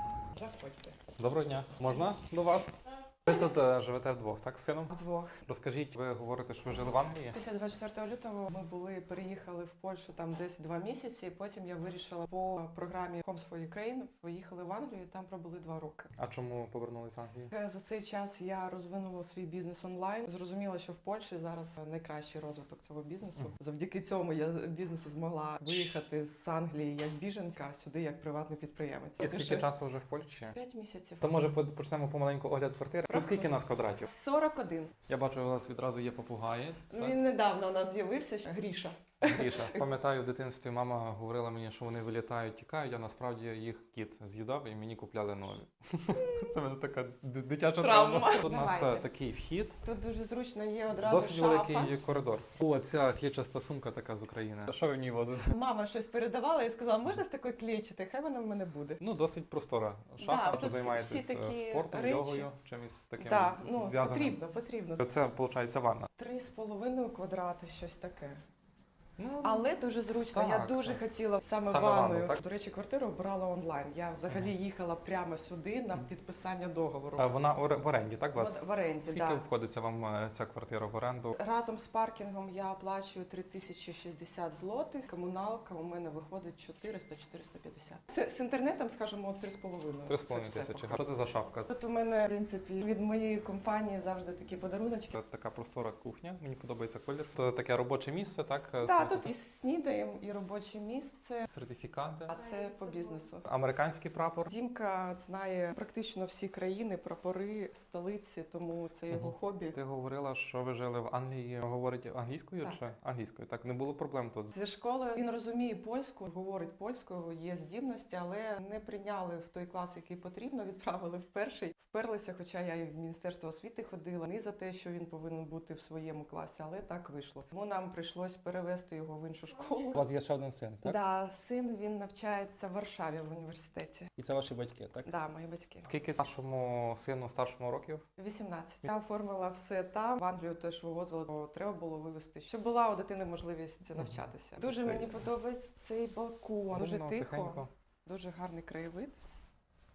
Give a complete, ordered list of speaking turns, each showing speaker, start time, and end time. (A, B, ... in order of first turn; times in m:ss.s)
0:00.3-0:01.0 A
0:01.2-0:02.7 B
0:03.3-0:04.9 B
0:04.9-0:05.4 A
0:05.4-0:07.4 B
0:07.3-0:16.1 A
0:16.2-0:17.5 B
0:17.5-0:29.7 A
0:29.2-0:30.6 B
0:30.5-0:31.4 A
0:31.2-0:34.1 B
0:33.1-0:33.5 A
0:34.1-0:34.9 A
0:35.1-0:37.2 B
0:36.9-0:39.9 A
0:39.2-0:49.8 B
0:47.8-0:49.1 A
0:49.8-0:51.9 A
0:51.0-0:55.5 B
0:55.5-0:59.0 A
0:59.0-1:04.4 B
1:00.2-1:02.5 A
1:03.2-1:05.1 A
1:05.0-1:06.1 B
1:06.2-1:08.4 A
1:09.2-1:09.7 B
1:09.4-1:17.3 A
1:10.3-1:11.0 B
1:11.7-1:12.4 B
1:17.2-1:21.4 B
1:18.3-1:19.4 A
1:21.3-1:31.0 A
1:30.1-1:31.7 B
1:31.7-1:35.1 A
1:35.1-1:39.3 B
1:38.8-1:41.5 A
1:41.4-1:42.4 B
1:42.3-1:43.4 A
1:43.4-1:44.5 B
1:44.5-1:49.8 A
1:49.1-1:54.6 B
1:54.5-2:10.0 A
2:09.9-2:11.0 B
2:10.8-2:14.1 A
2:14.2-2:15.1 B
2:15.0-2:15.9 A
2:15.9-2:18.0 B
2:18.2-2:29.5 A
2:24.0-2:25.2 B
2:26.7-2:27.7 B